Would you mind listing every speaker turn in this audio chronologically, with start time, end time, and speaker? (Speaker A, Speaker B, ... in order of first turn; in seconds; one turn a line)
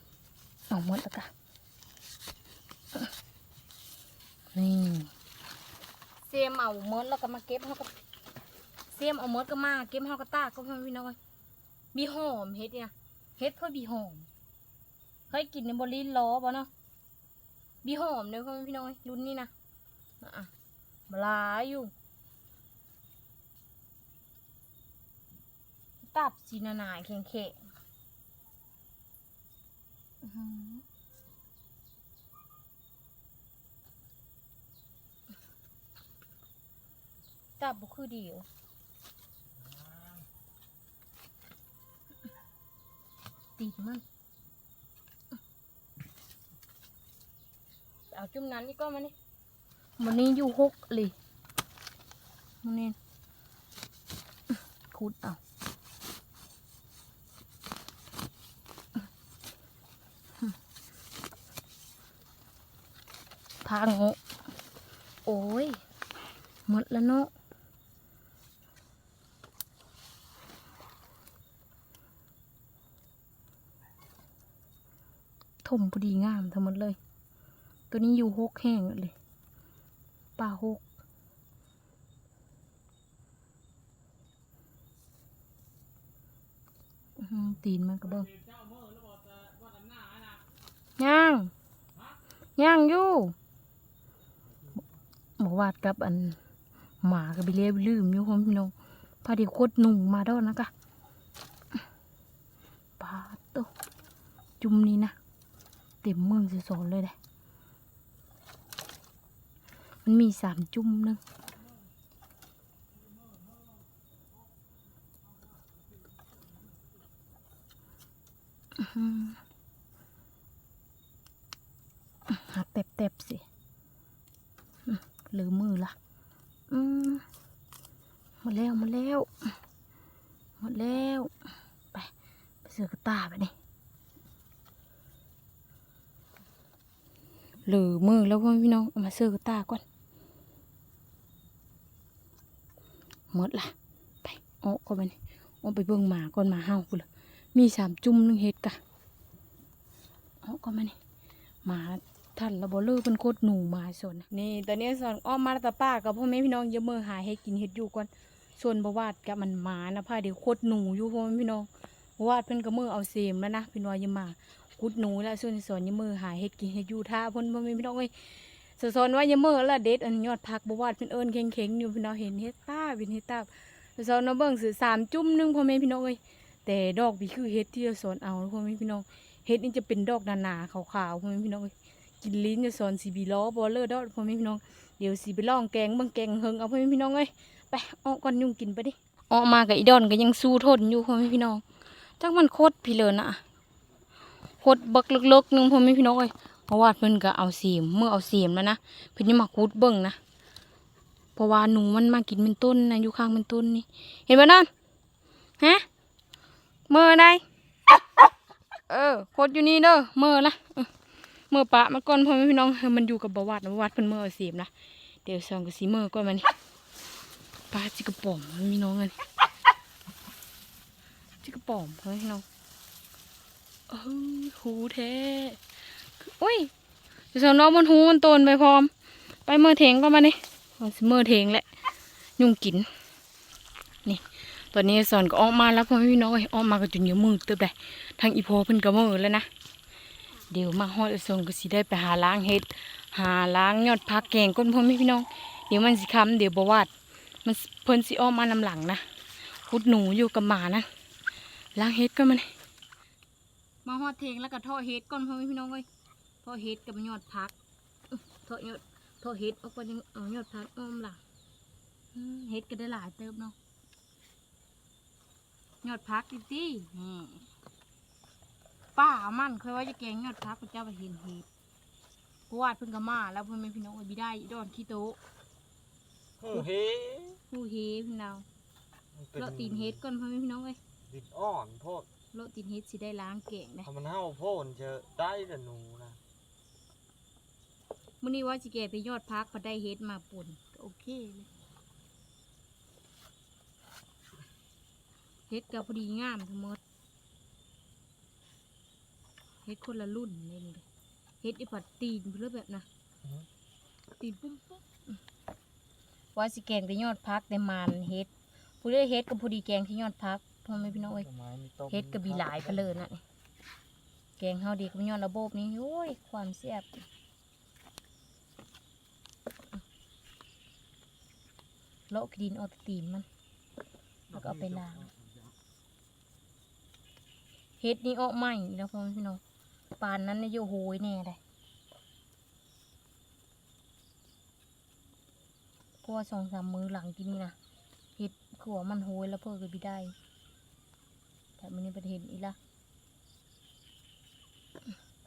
Speaker A: 0.7-1.3
Speaker A: 4.5-5.1
Speaker A: 6.2-7.9
Speaker A: 8.9-11.2
Speaker A: 11.9-14.3
Speaker A: 15.3-16.7
Speaker A: 17.8-19.5
Speaker A: 20.2-20.5
Speaker A: 21.1-21.9
Speaker A: 26.1-27.6
Speaker A: 30.2-30.8
Speaker A: 37.6-38.5
Speaker A: 43.6-44.0
Speaker A: 48.1-49.1
Speaker A: 50.0-51.1
Speaker A: 52.6-53.0
Speaker A: 54.9-55.4
Speaker A: 63.6-64.2
Speaker A: 65.2-65.8
Speaker A: 66.7-67.3
Speaker A: 75.6-77.0
Speaker A: 77.9-79.1
Speaker A: 80.4-80.8
Speaker A: 87.2-88.3
Speaker B: 88.3-90.4
Speaker A: 91.0-91.5
Speaker A: 92.6-93.3
Speaker A: 95.4-96.4
Speaker A: 97.0-98.7
Speaker A: 99.2-100.7
Speaker A: 103.0-103.7
Speaker A: 104.6-105.1
Speaker A: 106.0-107.2
Speaker A: 110.0-111.2
Speaker A: 118.7-119.4
Speaker A: 122.3-123.4
Speaker A: 124.8-125.9
Speaker A: 126.7-127.2
Speaker A: 128.4-129.5
Speaker A: 130.6-131.3
Speaker A: 132.6-133.5
Speaker A: 137.7-139.8
Speaker A: 143.3-148.8
Speaker A: 150.4-150.9
Speaker A: 151.6-168.1
Speaker A: 168.8-191.6
Speaker A: 192.2-193.4
Speaker A: 194.6-200.2
Speaker A: 201.3-204.7
Speaker A: 205.6-205.8
Speaker A: 206.9-207.4
Speaker A: 208.9-210.9
Speaker A: 211.5-214.7
Speaker A: 215.2-216.5
Speaker A: 217.7-219.2
Speaker A: 221.4-222.4
Speaker A: 223.9-225.6
Speaker A: 226.2-226.7
Speaker A: 227.3-228.9
Speaker A: 229.4-231.7
Speaker A: 232.4-232.9
Speaker A: 234.0-239.5
Speaker A: 240.5-246.9
Speaker A: 247.4-249.0
Speaker A: 249.7-250.9
Speaker A: 251.7-252.5
Speaker A: 253.8-255.8
Speaker A: 256.4-257.5
Speaker A: 258.4-261.2
Speaker A: 262.1-263.6
Speaker A: 265.8-267.5
Speaker A: 268.9-271.5
Speaker A: 272.5-275.2
Speaker B: 276.4-277.4
Speaker A: 277.5-278.4
Speaker B: 279.1-280.0
Speaker A: 279.4-280.8
Speaker B: 281.1-282.1
Speaker A: 282.3-283.9
Speaker B: 283.8-286.2
Speaker A: 288.2-291.5
Speaker A: 295.5-296.8
Speaker A: 299.6-300.8
Speaker A: 301.4-302.9
Speaker A: 304.2-304.8
Speaker A: 306.3-308.3
Speaker A: 308.8-311.3
Speaker B: 311.2-313.0
Speaker A: 311.9-313.2
Speaker A: 314.4-317.0
Speaker A: 322.1-323.3
Speaker B: 324.3-325.5
Speaker A: 324.3-325.1
Speaker A: 327.8-329.4
Speaker A: 330.0-331.4
Speaker A: 336.0-337.5
Speaker A: 338.2-340.1
Speaker A: 341.6-342.6